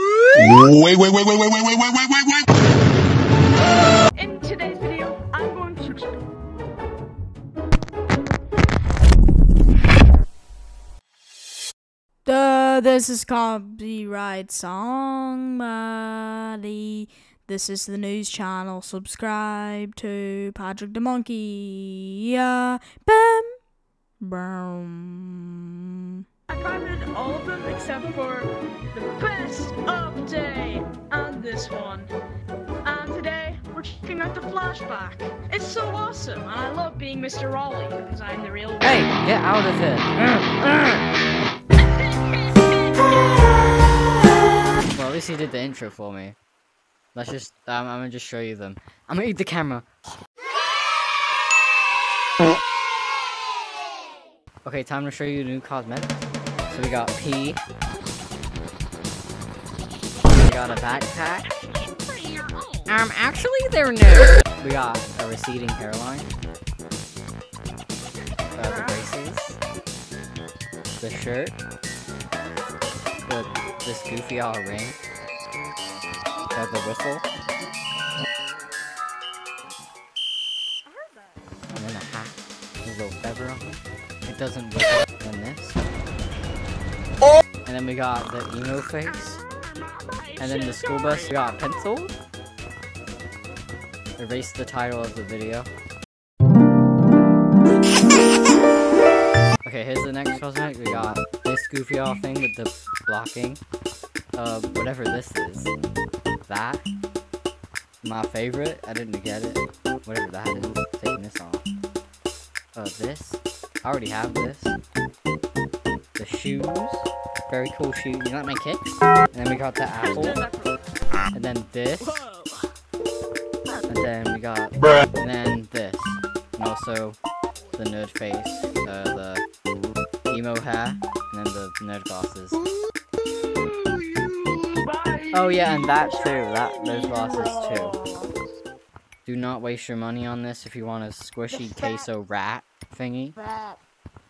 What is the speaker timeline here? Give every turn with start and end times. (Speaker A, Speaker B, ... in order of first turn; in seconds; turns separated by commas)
Speaker A: 0.3-2.3, Speaker B: 4.1-6.2, Speaker C: 12.2-23.6, Speaker C: 24.2-26.2, Speaker B: 26.5-32.1, Speaker B: 32.8-39.1, Speaker D: 38.8-40.1, Speaker C: 40.2-41.0, Speaker B: 41.8-43.0, Speaker D: 44.9-46.4, Speaker D: 47.1-49.8, Speaker D: 54.6-56.2, Speaker D: 56.7-57.6, Speaker B: 60.3-63.0, Speaker D: 60.3-61.5, Speaker D: 62.9-66.3, Speaker D: 68.5-69.5, Speaker B: 68.5-69.1, Speaker D: 71.0-71.5, Speaker D: 73.3-75.0, Speaker D: 76.5-77.2, Speaker B: 80.8-81.4, Speaker D: 81.8-83.7, Speaker D: 84.2-85.8, Speaker D: 87.7-89.4, Speaker B: 89.0-91.6, Speaker D: 90.4-92.1, Speaker D: 94.2-95.7, Speaker D: 99.6-103.6, Speaker D: 104.3-105.7, Speaker D: 106.5-106.8, Speaker D: 108.0-111.6, Speaker D: 112.7-114.8, Speaker D: 116.2-120.4, Speaker B: 119.9-120.8, Speaker D: 121.3-122.2, Speaker B: 122.0-122.7, Speaker D: 123.9-127.2, Speaker D: 127.8-129.4, Speaker D: 130.3-132.6, Speaker B: 133.7-138.3, Speaker D: 135.3-138.0, Speaker D: 139.2-143.4, Speaker B: 141.5-142.1, Speaker B: 143.4-143.8